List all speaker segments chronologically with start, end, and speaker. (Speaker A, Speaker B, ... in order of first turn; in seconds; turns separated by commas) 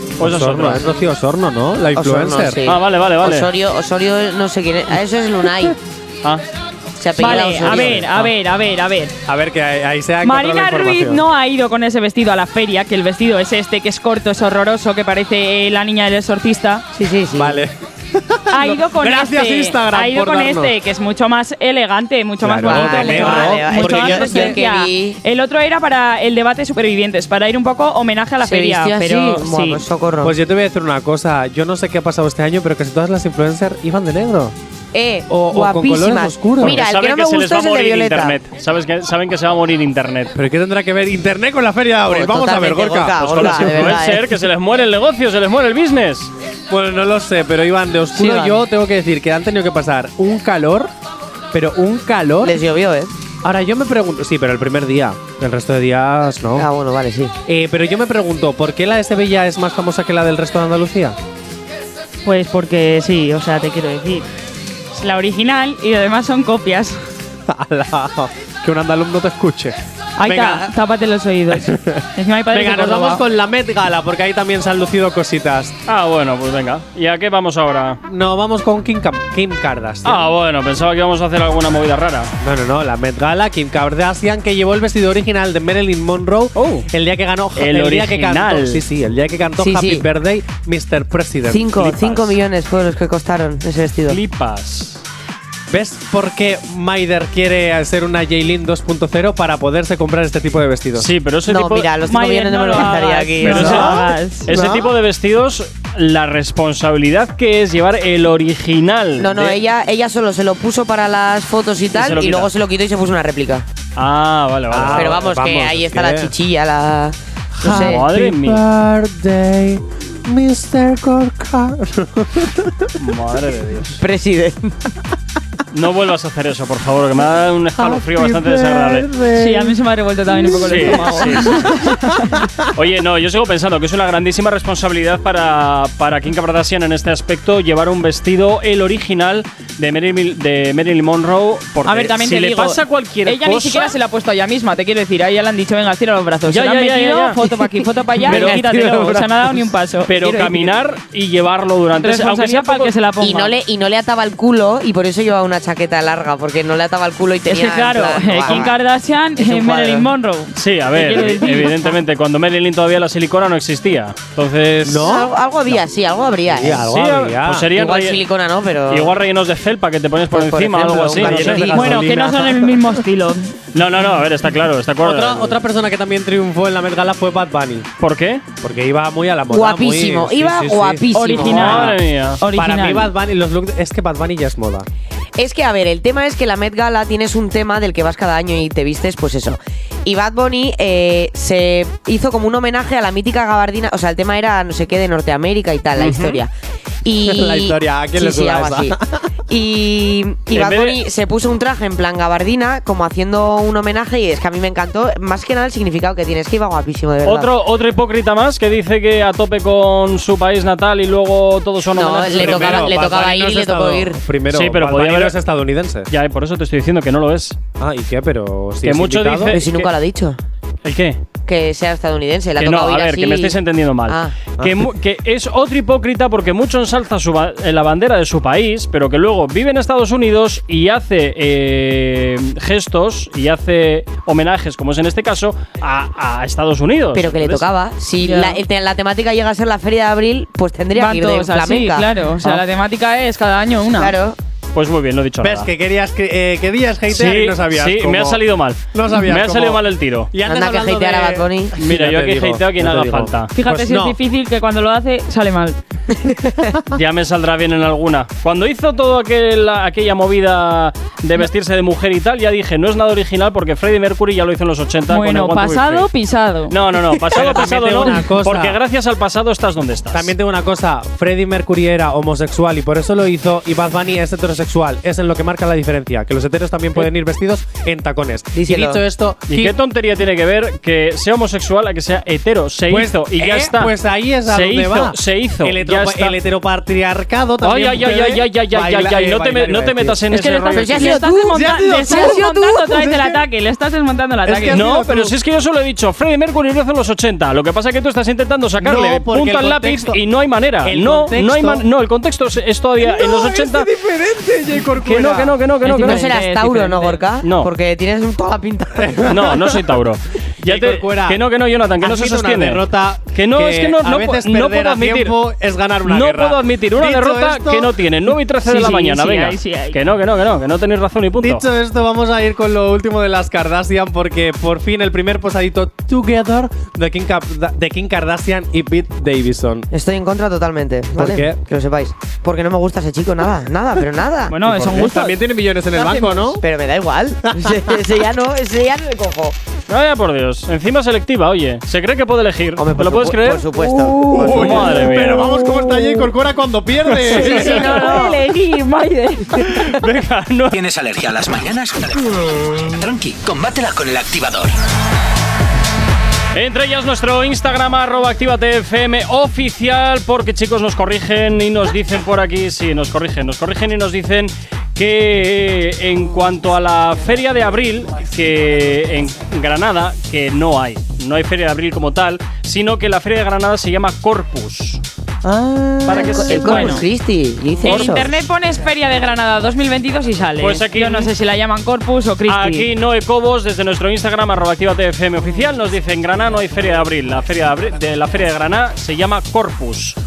Speaker A: 0.2-0.8, Speaker B: 0.2-2.8, Speaker C: 1.9-5.8, Speaker A: 2.6-3.5, Speaker C: 7.0-8.0, Speaker D: 7.2-9.1, Speaker B: 7.2-8.3, Speaker B: 9.2-11.2, Speaker D: 10.2-16.8, Speaker C: 16.9-17.6, Speaker B: 17.3-20.7, Speaker D: 18.5-29.8, Speaker B: 22.4-24.6, Speaker C: 22.6-25.2, Speaker C: 28.4-30.3, Speaker B: 30.2-34.5, Speaker C: 34.9-38.4, Speaker B: 35.3-36.8, Speaker A: 36.6-40.3, Speaker B: 40.3-44.0, Speaker C: 42.1-44.3, Speaker A: 43.2-46.3, Speaker B: 46.7-50.9, Speaker C: 48.1-48.6, Speaker B: 51.5-52.6, Speaker C: 52.4-53.1, Speaker B: 53.4-56.7, Speaker C: 56.5-57.3, Speaker B: 57.5-61.2, Speaker D: 62.2-64.3, Speaker D: 64.9-67.0, Speaker B: 67.5-70.7, Speaker D: 70.2-73.2, Speaker B: 71.5-75.8, Speaker A: 75.9-78.0, Speaker B: 78.0-80.2, Speaker A: 80.0-82.3, Speaker B: 82.4-92.3, Speaker A: 86.5-86.9, Speaker A: 87.5-88.8, Speaker C: 89.6-90.0, Speaker C: 91.5-94.2, Speaker A: 94.1-95.0, Speaker B: 95.7-101.1, Speaker A: 100.9-101.9, Speaker C: 101.5-104.7, Speaker D: 102.0-104.6, Speaker A: 103.4-109.6, Speaker C: 109.2-113.7, Speaker A: 111.9-112.5, Speaker A: 114.0-115.3, Speaker B: 114.7-116.3, Speaker C: 114.9-118.0, Speaker B: 117.6-122.9, Speaker A: 117.6-118.6, Speaker A: 123.0-124.0, Speaker C: 124.0-124.9, Speaker A: 125.7-129.1, Speaker B: 127.7-129.8, Speaker D: 129.3-132.3, Speaker B: 130.3-131.9, Speaker A: 130.5-131.8, Speaker A: 132.7-143.9, Speaker D: 141.8-150.7, Speaker A: 146.5-147.5, Speaker A: 148.3-149.3, Speaker B: 148.4-148.7, Speaker A: 150.1-152.9, Speaker D: 152.0-153.5, Speaker C: 153.2-158.8, Speaker D: 157.5-161.9, Speaker C: 159.4-160.1, Speaker A: 160.6-165.1, Speaker B: 164.8-165.8, Speaker C: 165.0-166.8, Speaker B: 166.5-167.7, Speaker A: 166.8-168.2, Speaker C: 167.7-169.2, Speaker A: 168.9-171.8, Speaker C: 170.3-172.1, Speaker B: 171.0-172.9, Speaker D: 171.7-173.5, Speaker A: 173.7-175.6, Speaker B: 175.0-177.9, Speaker A: 178.0-178.4, Speaker B: 178.6-181.3, Speaker C: 179.5-181.9, Speaker D: 181.1-183.1, Speaker A: 181.4-182.4, Speaker B: 182.5-184.9, Speaker C: 185.4-196.5, Speaker A: 196.0-196.4, Speaker C: 197.0-199.0, Speaker B: 197.2-199.3, Speaker C: 199.5-207.5, Speaker A: 200.5-201.0, Speaker A: 207.2-213.0, Speaker C: 211.9-214.2, Speaker B: 212.3-216.1, Speaker A: 214.5-215.3, Speaker A: 216.1-217.6, Speaker B: 217.8-219.6, Speaker A: 218.8-219.9, Speaker C: 219.5-220.4, Speaker A: 220.8-221.2, Speaker C: 221.4-223.6, Speaker A: 222.6-237.7, Speaker C: 224.1-224.3, Speaker B: 224.6-224.8, Speaker C: 237.1-242.6, Speaker D: 238.2-238.6, Speaker D: 240.9-244.1, Speaker C: 244.0-244.4, Speaker A: 244.7-245.7, Speaker B: 245.4-254.2, Speaker A: 247.1-250.3, Speaker C: 250.4-251.7, Speaker A: 251.8-253.5, Speaker D: 253.5-255.8, Speaker C: 256.2-256.5, Speaker A: 256.9-266.1, Speaker D: 265.1-266.8, Speaker A: 266.7-270.3, Speaker B: 267.3-268.8, Speaker B: 270.1-279.7, Speaker C: 278.5-279.0, Speaker A: 279.5-283.9, Speaker B: 282.9-290.2, Speaker A: 284.4-286.4, Speaker A: 287.6-291.2, Speaker D: 290.3-294.8, Speaker C: 290.7-292.7, Speaker B: 291.2-293.4, Speaker B: 294.4-295.4, Speaker A: 294.7-303.9, Speaker B: 298.8-300.2, Speaker B: 300.8-301.8, Speaker B: 303.0-305.6, Speaker A: 304.9-306.3, Speaker D: 305.8-307.2, Speaker C: 306.0-309.5, Speaker A: 307.4-307.7, Speaker B: 309.0-309.8, Speaker A: 309.3-315.3, Speaker B: 310.6-311.4, Speaker B: 312.0-317.9, Speaker A: 316.0-321.6, Speaker D: 318.6-320.0, Speaker B: 321.4-329.9, Speaker C: 329.9-334.5, Speaker B: 331.1-331.6, Speaker D: 334.5-335.4, Speaker B: 334.6-336.6, Speaker D: 335.9-336.6, Speaker C: 336.6-339.6, Speaker B: 337.5-338.0, Speaker A: 339.9-343.6, Speaker C: 342.8-345.0, Speaker B: 343.9-348.0, Speaker D: 343.9-344.7, Speaker A: 344.5-345.4, Speaker D: 345.4-346.3, Speaker D: 347.2-349.9, Speaker C: 347.3-348.4, Speaker A: 347.6-348.2, Speaker A: 349.6-350.8, Speaker E: 350.7-354.7, Speaker A: 356.5-375.0, Speaker B: 375.4-376.4, Speaker C: 375.6-378.3, Speaker A: 376.1-377.0, Speaker D: 376.4-377.0, Speaker D: 377.8-382.9, Speaker A: 377.8-378.1, Speaker A: 380.6-381.3, Speaker A: 382.5-390.1